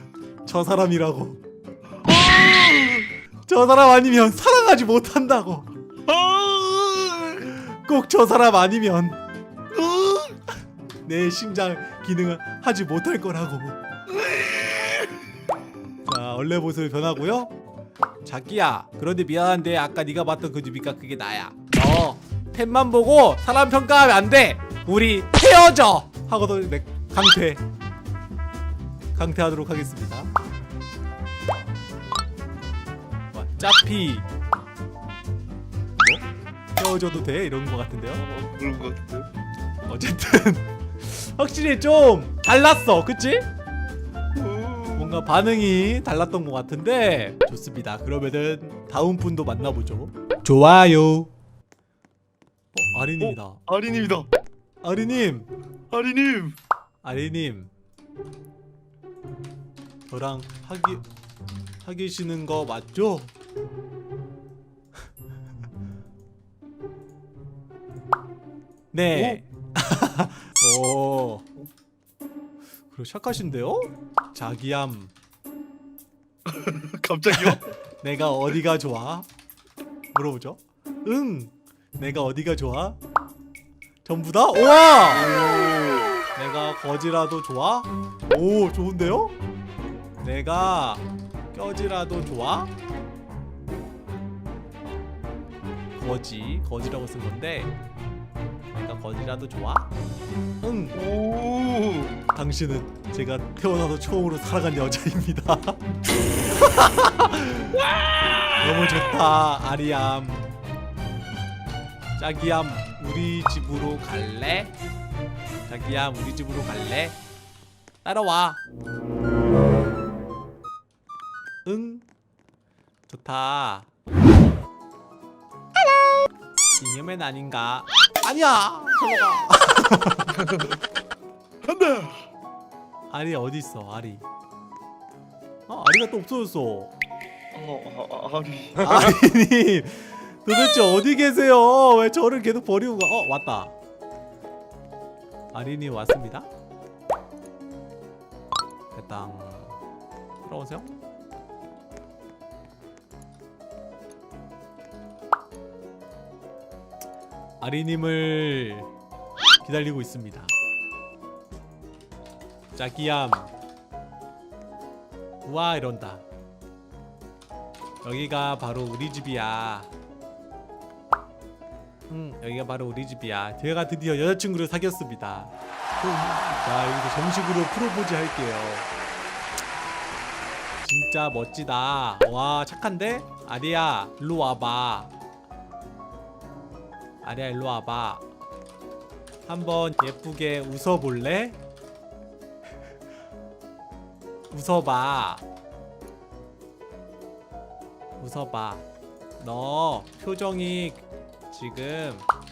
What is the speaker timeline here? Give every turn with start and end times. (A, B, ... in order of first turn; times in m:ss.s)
0:00.4-0:01.4 A
0:02.0-0:03.1 B
0:03.5-0:05.7 A
0:06.1-0:07.5 B
0:07.5-0:09.2 A
0:09.7-0:10.4 B
0:11.0-0:13.8 A
0:14.2-0:15.1 B
0:16.0-0:17.5 A
0:18.2-0:27.6 A
0:29.1-0:30.3 A
0:33.3-0:34.2 A
0:36.8-0:38.2 A
0:38.1-0:39.3 B
0:39.8-0:43.5 A
0:44.3-0:45.2 B
0:45.0-0:51.3 A
0:52.7-0:53.6 A
0:53.2-0:54.3 B
0:54.8-0:55.5 A
0:55.9-0:56.6 B
0:57.0-0:57.7 A
1:00.1-1:01.0 A
1:01.8-1:03.3 A
1:08.9-1:11.5 A
1:09.1-1:09.4 B
1:12.9-1:15.1 A
1:16.4-1:17.7 B
1:17.3-1:19.3 A
1:20.1-1:23.0 A
1:24.0-1:25.4 A
1:25.1-1:26.2 B
1:26.3-1:29.4 A
1:30.2-1:32.7 A
1:36.0-1:37.7 A
1:38.7-1:39.9 A
1:40.6-1:41.0 A
1:40.9-1:42.2 B
1:42.3-1:45.9 A
1:46.5-1:47.7 A
1:47.7-1:49.1 B
1:48.6-1:50.5 A
1:52.2-1:54.7 A
1:55.7-1:57.2 A
1:58.0-1:58.6 A
2:01.6-2:02.0 A
2:03.1-2:03.9 A
2:06.8-2:10.3 A
2:10.3-2:10.8 B
2:11.6-2:12.2 B
2:13.1-2:14.2 A
2:15.7-2:16.9 A
2:17.5-2:19.2 B
2:18.8-2:23.7 A
2:25.5-2:26.5 A
2:28.9-2:29.7 A
2:30.4-2:31.0 A
2:37.6-2:38.9 A
2:39.6-2:40.5 A
2:42.7-2:43.5 A
2:45.4-2:46.2 A
2:48.0-2:49.9 A
2:52.1-2:58.9 A
3:00.8-3:05.1 A
3:07.2-3:08.2 A
3:09.4-3:11.6 A
3:14.5-3:15.4 A
3:18.2-3:18.8 A
3:19.4-3:22.2 A